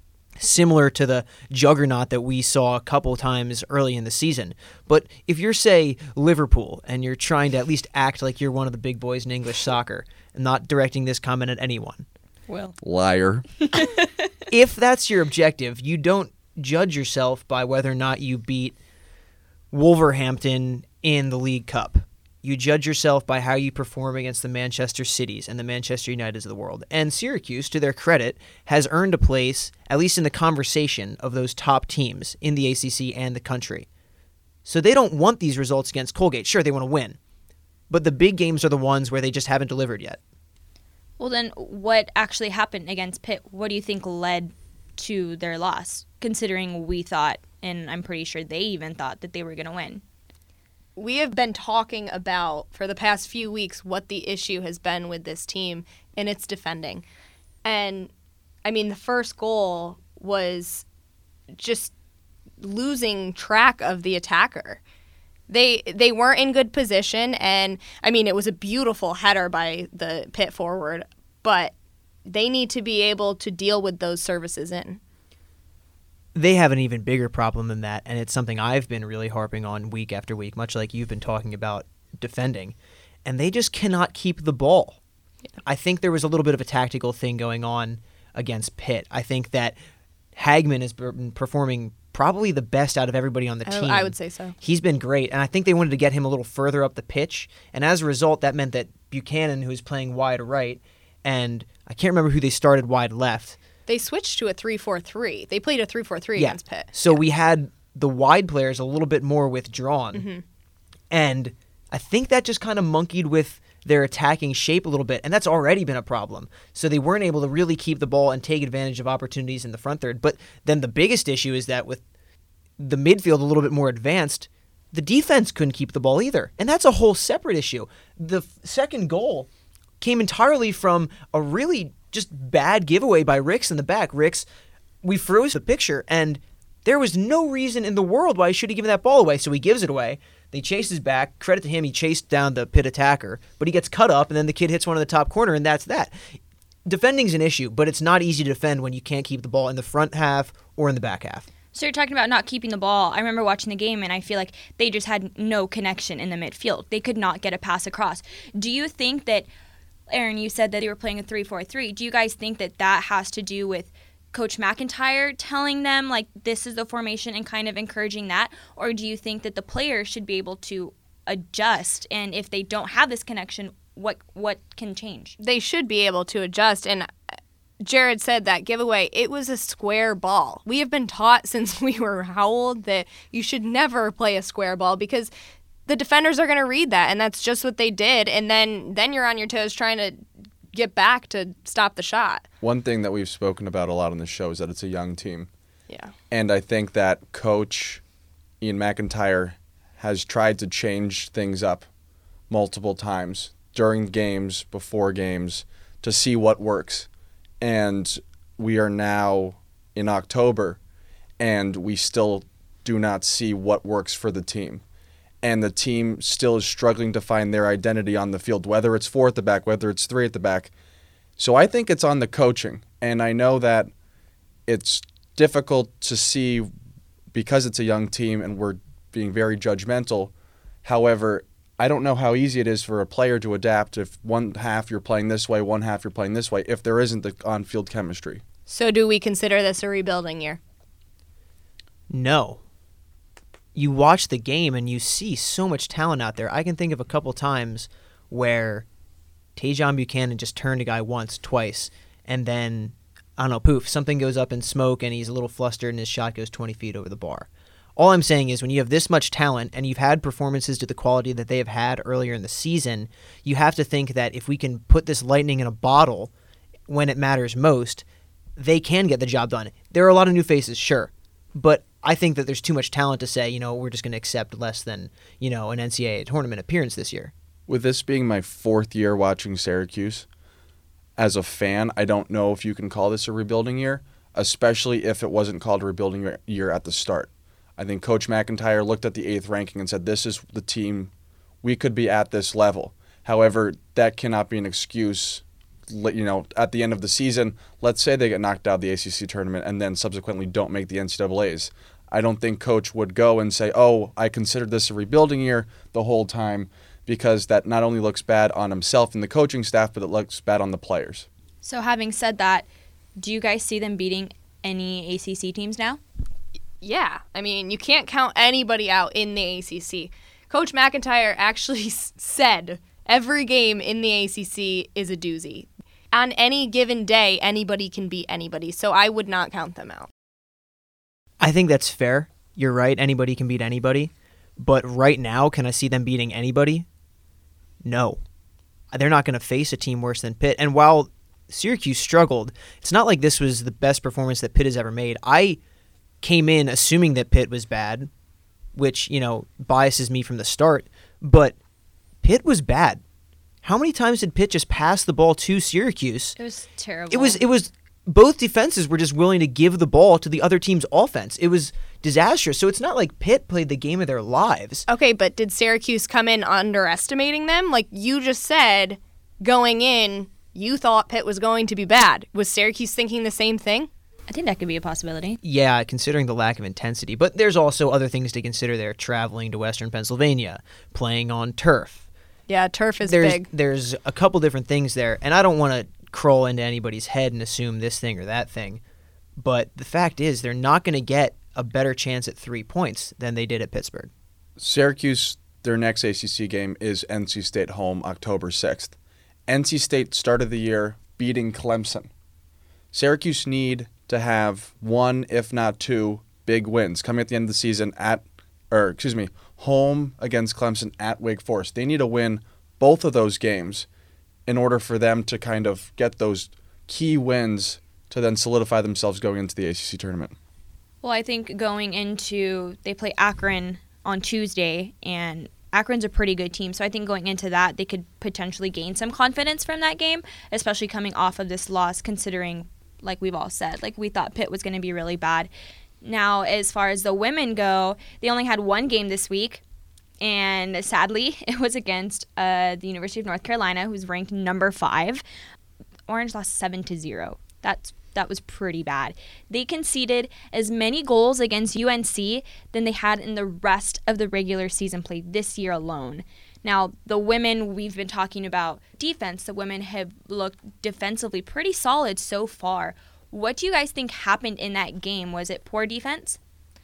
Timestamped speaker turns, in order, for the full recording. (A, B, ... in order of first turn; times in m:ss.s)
0:00.4-0:12.0 A
0:12.8-0:13.5 B
0:14.5-0:18.8 A
0:19.7-0:33.9 A
0:34.6-0:37.2 A
0:37.9-0:40.2 A
0:41.2-0:50.0 C
0:51.0-0:57.0 D
0:57.6-0:58.1 D
0:58.6-1:00.8 D
1:01.5-1:01.9 D
1:02.6-1:04.8 D
1:05.5-1:11.7 D
1:12.2-1:15.0 D
1:16.3-1:25.0 A
1:25.6-1:29.8 A
1:30.4-1:43.6 A
1:33.6-1:34.6 D
1:43.9-1:47.2 D
1:46.3-1:50.2 A
1:50.1-1:50.4 D
1:51.1-2:02.0 A
2:02.8-2:09.5 A
2:10.0-2:14.4 A
2:15.0-2:26.2 A
2:26.8-2:31.5 A
2:31.7-2:39.5 C
2:40.1-2:55.4 C
2:55.4-2:57.1 D
2:57.8-3:05.3 D
3:05.9-3:12.4 D
3:12.6-3:15.5 B
3:16.3-3:18.0 B
3:18.6-3:21.8 B
3:22.5-3:27.1 B
3:27.6-3:30.8 B
3:31.4-3:34.8 B
3:35.4-3:40.7 B
3:41.4-3:43.9 B
3:44.7-3:46.7 B
3:47.3-3:50.3 B
3:50.8-3:58.4 B
3:58.7-4:00.6 D
4:02.1-4:02.6 A
4:03.7-4:08.8 A
4:09.6-4:26.3 A
4:26.9-4:28.0 A
4:28.6-4:37.3 A
4:37.7-4:40.2 B
4:41.2-4:51.1 B
4:51.6-5:11.3 B
5:11.6-5:16.0 C
5:16.8-5:30.1 D
5:31.4-5:36.8 A
5:37.8-5:38.2 A
5:38.9-5:45.6 A
5:46.2-5:48.1 A
5:48.7-5:51.5 A
5:52.2-5:53.0 A
5:53.6-5:56.4 A
5:56.4-5:57.4 C
5:57.1-6:04.8 A
6:04.9-6:13.9 D
6:14.3-6:15.4 C
6:15.4-6:22.0 A
6:22.5-6:23.5 D
6:23.0-6:28.8 A
6:29.4-6:34.1 A
6:34.6-6:38.9 B
6:39.5-6:42.1 B
6:42.9-6:53.8 B
6:54.4-7:00.3 B
7:01.0-7:15.5 C
7:16.0-7:19.6 C
7:20.2-7:25.2 C
7:26.1-7:46.4 C